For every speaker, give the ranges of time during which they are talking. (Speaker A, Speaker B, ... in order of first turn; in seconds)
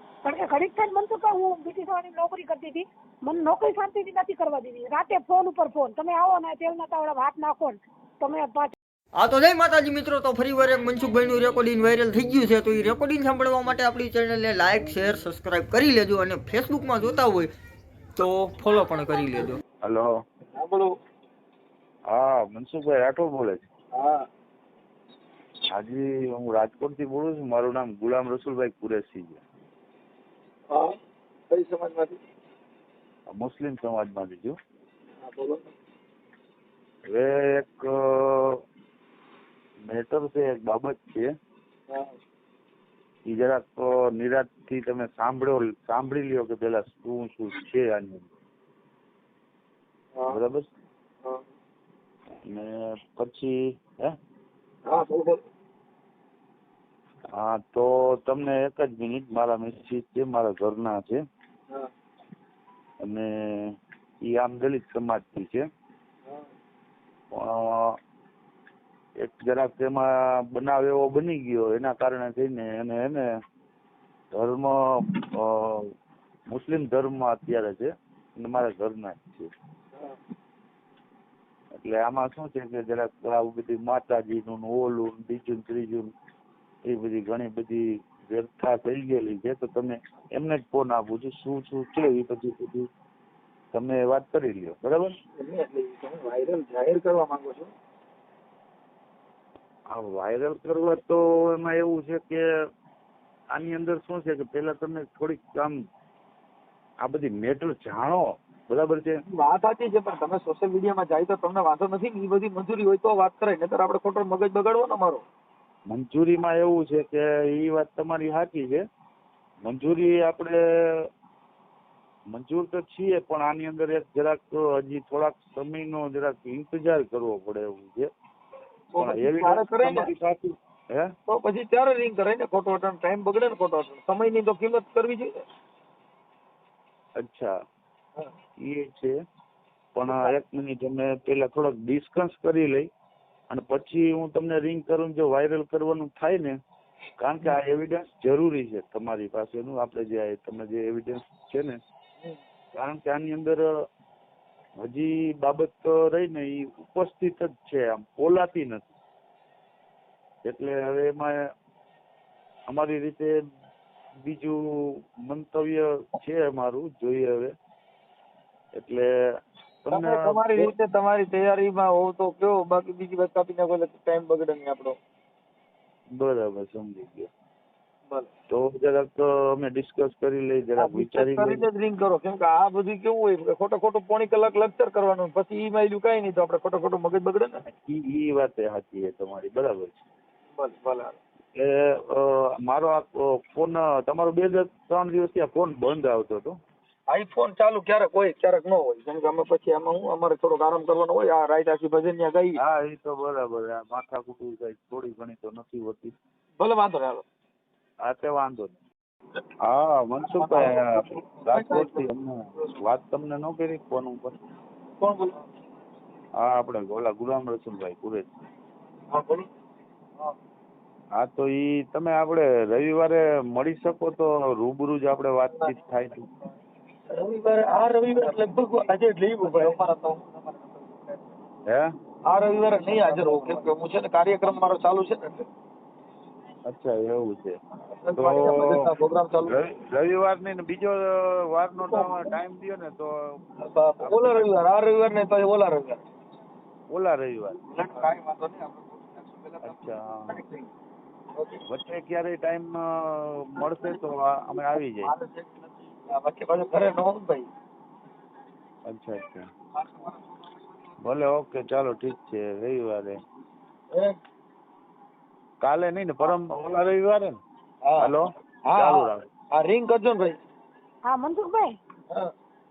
Speaker A: 0.2-8.7, 271.0-271.7
Speaker B: 9.1-17.5, 18.1-19.6
Speaker C: 19.8-20.1, 22.1-23.6, 25.7-29.4, 33.3-34.6, 37.1-38.6, 39.9-41.3, 43.3-48.3, 50.3-50.7, 52.5-54.1, 57.3-61.2, 63.0-65.6, 67.3-68.0, 69.2-73.2, 74.3-75.9, 76.5-79.5, 81.7-86.1, 86.9-92.9, 93.7-95.1, 99.9-102.4, 103.5-105.8, 107.0-109.2, 115.9-118.8, 119.6-121.1, 122.3-128.1, 129.0-131.1, 137.2-137.5, 138.6-139.1, 139.9-142.9, 143.5-146.6, 147.2-151.8, 152.7-153.7, 154.8-158.9, 160.4-161.3, 162.7-163.3, 164.2-167.5, 168.7-169.1, 169.8-170.7, 176.1-177.3, 178.5-181.6, 187.8-190.0, 191.5-196.6, 202.6-206.1, 208.0-208.8, 209.7-214.3, 216.4-218.2, 221.2-226.3, 236.7-237.6, 238.2-238.8, 239.4-243.4, 244.0-244.6, 246.9-247.6, 249.6-250.4, 251.7-255.1, 258.9-259.5, 261.0-263.2, 265.6-267.4, 268.0-269.2
Speaker D: 20.5-20.9, 23.9-24.2, 30.7-30.9, 31.5-32.2, 35.2-35.6, 54.9-55.4, 95.4-97.7, 109.3-115.2, 128.9-130.1, 131.3-135.4, 140.1-140.4, 169.9-174.9, 180.8-187.6, 190.5-191.2, 197.1-202.6, 206.6-207.2, 210.2-212.1, 215.0-215.4, 219.1-219.5, 227.1-229.8, 232.2-235.4, 237.9-239.5, 241.9-242.3, 243.6-246.0, 247.7-250.7, 251.3-251.6, 253.6-254.0, 254.5-257.5, 267.8-268.1, 268.7-270.4